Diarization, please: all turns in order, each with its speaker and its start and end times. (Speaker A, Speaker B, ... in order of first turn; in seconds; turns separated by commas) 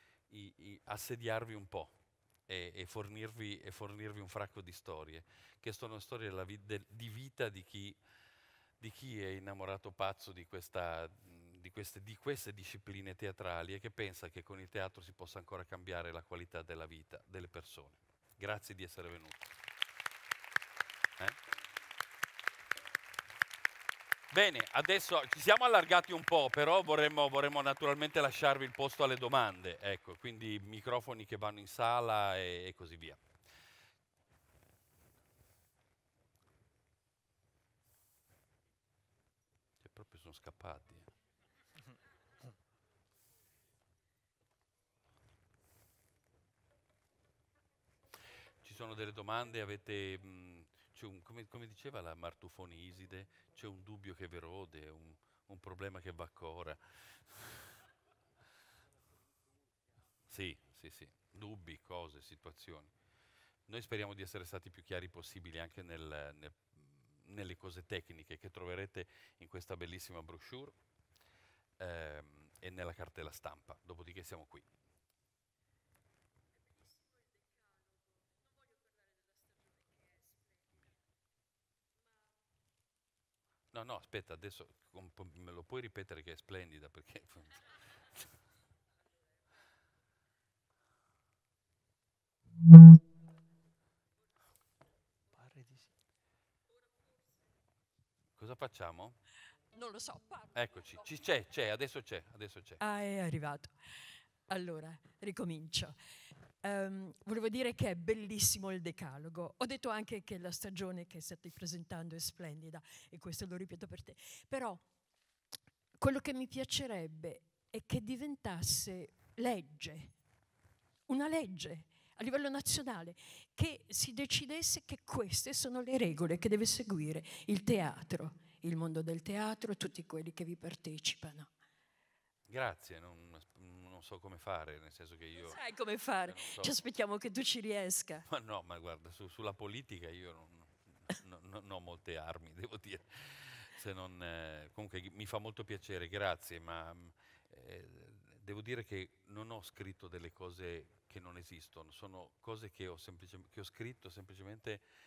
Speaker A: 0.3-8.0, Speaker A: 8.8-19.5, Speaker A: 24.3-33.2, Speaker A: 39.8-41.1, Speaker A: 48.6-57.6, Speaker A: 60.3-62.9, Speaker A: 63.7-70.8, Speaker A: 71.8-74.7, Speaker A: 83.7-87.7, Speaker A: 98.4-99.2, Speaker B: 99.7-100.5, Speaker A: 100.5-102.8, Speaker B: 102.8-106.0, Speaker B: 106.6-114.9, Speaker B: 116.0-120.2, Speaker B: 121.1-131.5, Speaker A: 132.5-136.8, Speaker B: 135.4-138.3, Speaker A: 138.3-154.8